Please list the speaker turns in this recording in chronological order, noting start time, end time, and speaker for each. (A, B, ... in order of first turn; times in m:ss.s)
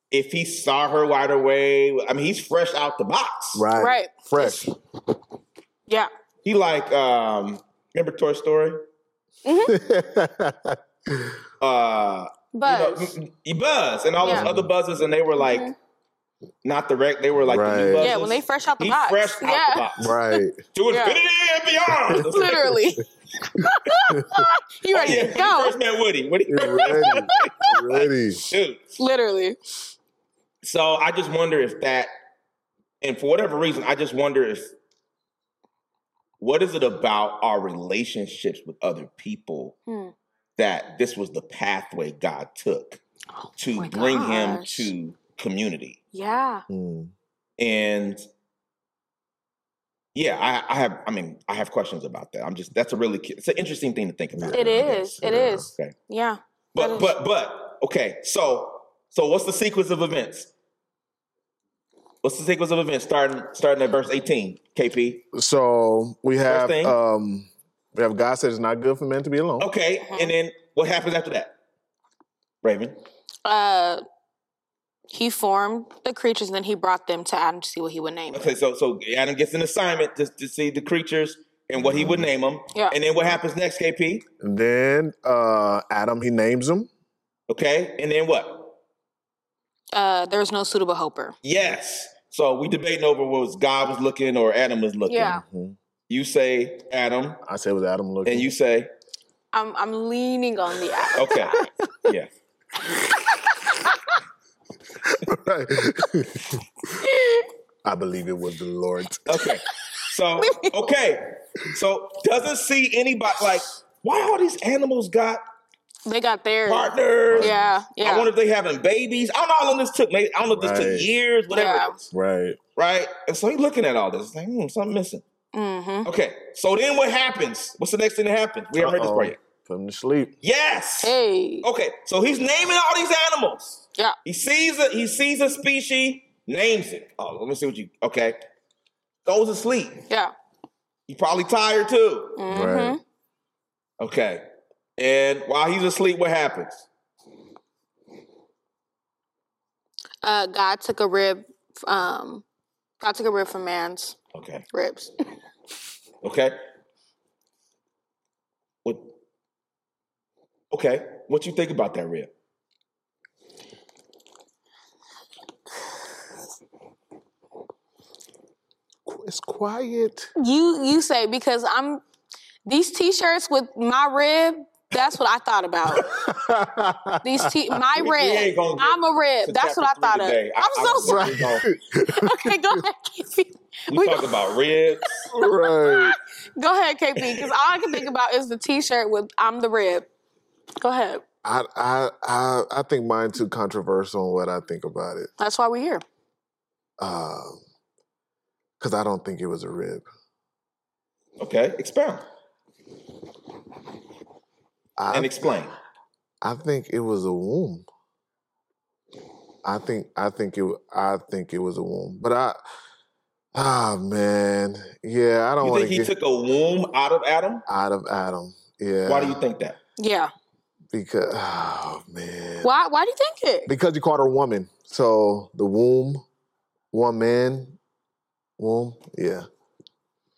0:00.1-0:03.7 A
0:03.6-0:04.7 B
0:03.8-0:04.7 C
0:06.4-0:08.9 A
0:09.4-0:09.8 C
0:09.7-0:11.4 B
0:11.6-0:15.7 A
0:12.5-0:13.2 C
0:14.2-0:14.7 B
0:14.2-0:14.5 C
0:15.4-0:15.7 C
0:16.6-0:20.2 A
0:17.4-0:18.1 B
0:18.0-0:21.2 C
0:20.0-0:20.6 B
0:20.7-0:22.8 A
0:22.1-0:22.7 B
0:22.1-0:25.8 C
0:24.1-0:24.5 B
0:24.9-0:29.0 A
0:26.5-0:28.5 B
0:26.8-0:27.6 C
0:29.0-0:29.6 C
0:30.6-0:32.1 A
0:33.0-0:34.7 A
0:36.4-0:39.8 A
0:39.9-0:40.1 C
0:40.6-0:43.0 A
0:43.4-0:44.9 C
0:43.6-0:46.0 A
0:46.1-0:46.7 C
0:46.7-0:47.1 B
0:47.6-0:48.2 A
0:50.2-0:56.0 A
0:54.3-0:55.7 B
0:54.5-0:57.2 C
0:56.8-1:00.5 A
1:02.2-1:05.2 A
1:05.3-1:09.7 B
1:06.5-1:07.0 A
1:09.6-1:11.5 A
1:10.0-1:10.3 C
1:12.6-1:13.0 A
1:13.4-1:14.0 C
1:15.1-1:18.6 C
1:18.3-1:24.2 A
1:21.8-1:22.3 B
1:24.4-1:26.9 B
1:27.5-1:28.8 A
1:29.9-1:31.4 C
1:31.4-1:35.4 A
1:35.1-1:35.4 C
1:35.3-1:35.8 B
1:36.1-1:37.4 A
1:37.4-1:38.5 B
1:38.2-1:38.9 A
1:39.5-1:41.7 C
1:41.2-1:42.3 A
1:42.9-1:44.0 C
1:45.1-1:46.6 B
1:47.0-1:47.5 C
1:47.8-1:49.4 B
1:49.3-1:55.4 A
1:50.4-1:50.9 C
1:56.0-1:58.3 C
1:56.7-2:02.0 A
1:57.3-1:57.8 B
2:00.5-2:01.1 B
2:01.5-2:02.0 C
2:02.1-2:02.6 B
2:02.8-2:05.2 A
2:05.5-2:06.1 C
2:06.0-2:09.4 A
2:08.8-2:10.4 B
2:10.4-2:18.4 A
2:11.0-2:11.7 C
2:19.2-2:20.0 A
2:21.1-2:22.4 A
2:22.4-2:23.0 C
2:22.5-2:23.0 B
2:24.0-2:24.4 A
2:25.0-2:26.8 A
2:30.2-2:32.4 C
2:33.0-2:34.2 C
2:34.4-2:34.7 A
2:34.7-2:35.1 C
2:36.2-2:36.6 A
2:38.8-2:39.1 A
2:40.7-2:42.3 A
2:49.1-2:50.3 B
2:50.4-2:52.0 C
2:52.7-2:56.1 C
2:56.0-2:57.8 B
2:57.2-3:01.5 C
2:58.0-3:01.7 A
3:01.0-3:02.8 B
3:02.1-3:04.4 C
3:03.9-3:05.3 A
3:05.2-3:10.1 C
3:05.3-3:06.2 B
3:10.8-3:11.2 C
3:11.4-3:15.3 B
3:15.4-3:16.0 C
3:17.0-3:17.6 B
3:18.8-3:20.1 B
3:21.4-3:22.2 A
3:25.0-3:25.4 B
3:25.1-3:25.7 A
3:26.4-3:27.9 B
3:29.6-3:32.6 B
3:33.6-3:36.1 B
3:35.6-3:37.6 A
3:37.7-3:39.4 B
3:39.1-3:39.8 A
3:40.0-3:40.3 C
3:40.9-3:42.7 B
3:42.6-3:43.7 C
3:43.7-3:46.2 B
3:46.9-3:47.8 B
3:48.6-3:49.5 B